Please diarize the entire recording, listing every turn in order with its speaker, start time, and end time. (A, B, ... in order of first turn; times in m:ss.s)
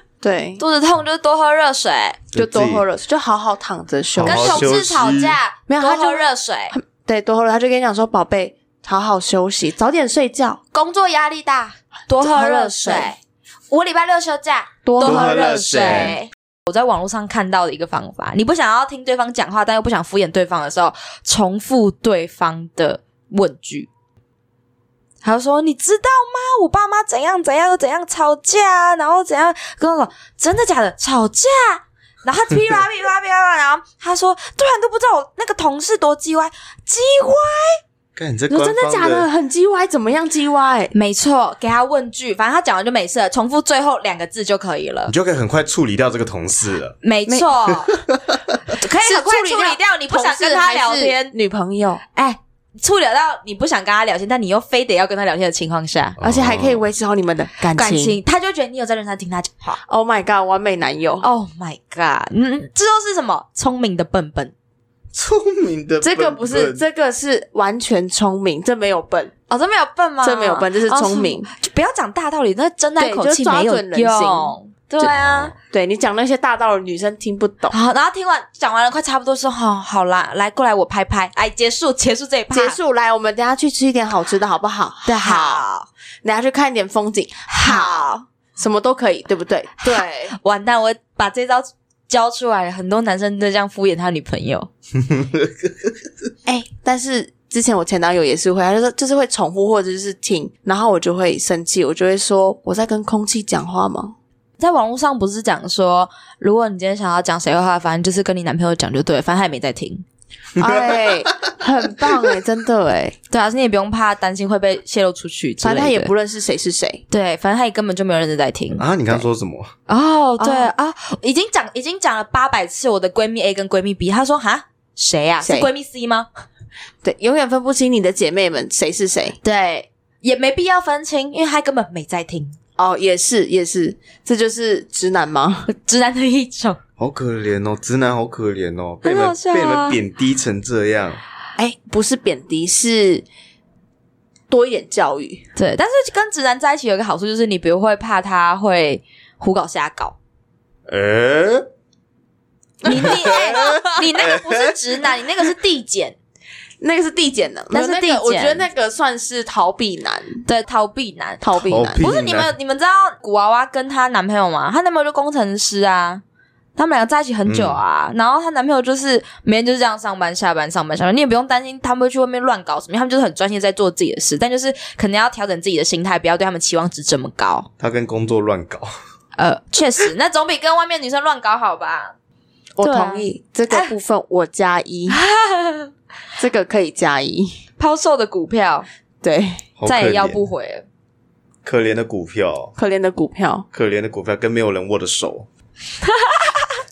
0:00.2-0:00.6 A
0:00.6-0:02.2 B
0:02.3-0:02.8 C
0:02.3-0:04.7 A
0:04.2-0:05.4 C
0:04.2-0:06.8 B
0:05.7-0:10.6 A
0:10.7-0:13.2 B
0:12.2-0:13.2 A
0:13.7-0:23.9 B
0:14.8-0:16.2 A
0:15.0-0:16.2 C
0:25.2-0:37.8 B
0:38.2-0:39.3 C
0:38.5-0:40.9 A
0:40.9-0:45.1 B
0:45.1-0:47.0 C
0:47.0-0:48.0 B
0:47.9-0:48.5 C
0:48.7-0:51.3 B
0:48.8-0:52.0 A
0:52.1-0:56.2 B
0:56.2-0:56.8 C
0:56.2-0:58.2 A
0:57.7-0:59.8 B
0:59.9-1:01.3 A
1:01.2-1:04.5 B
1:05.1-1:06.8 C
1:06.0-1:09.4 A
1:09.5-1:15.5 B
1:10.2-1:11.5 A
1:13.0-1:15.1 A
1:15.0-1:15.6 C
1:15.7-1:17.8 A
1:17.7-1:22.8 B
1:22.5-1:25.7 A
1:25.1-1:25.9 B
1:26.2-1:30.4 A
1:27.5-1:28.3 B
1:29.9-1:34.7 B
1:35.0-1:35.9 C
1:36.5-1:44.2 A
1:44.6-1:50.0 B
1:50.6-1:51.6 C
1:50.6-1:53.2 A
1:53.3-1:56.1 B
1:55.6-1:57.0 A
1:57.1-1:59.2 B
1:58.8-1:59.7 C
1:59.9-2:06.3 B
2:00.4-2:00.7 A
2:05.4-2:05.7 A
2:07.0-2:09.4 A
2:09.4-2:12.6 B
2:12.8-2:15.7 A
2:15.7-2:16.8 B
2:17.0-2:21.2 C
2:19.0-2:20.0 B
2:21.6-2:23.2 A
2:24.5-2:25.5 A
2:25.6-2:30.2 B
2:30.9-2:31.7 C
2:32.8-2:34.1 A
2:32.8-2:36.2 B
2:32.9-2:34.8 C
2:36.8-2:40.4 A
2:37.7-2:38.7 B
2:40.5-2:46.2 B
2:41.4-2:42.1 A
2:41.7-2:42.5 C
2:46.8-2:57.7 B
2:47.5-2:47.8 C
2:57.8-2:58.9 C
2:59.4-3:02.1 B
3:02.8-3:05.2 A
3:02.8-3:03.9 B
3:05.1-3:05.9 B
3:06.4-3:07.6 A
3:07.8-3:08.9 B
3:09.2-3:09.6 A
3:09.8-3:10.4 C
3:09.9-3:10.8 B
3:11.6-3:12.8 C
3:12.8-3:13.7 A
3:13.7-3:15.5 C
3:16.1-3:16.7 B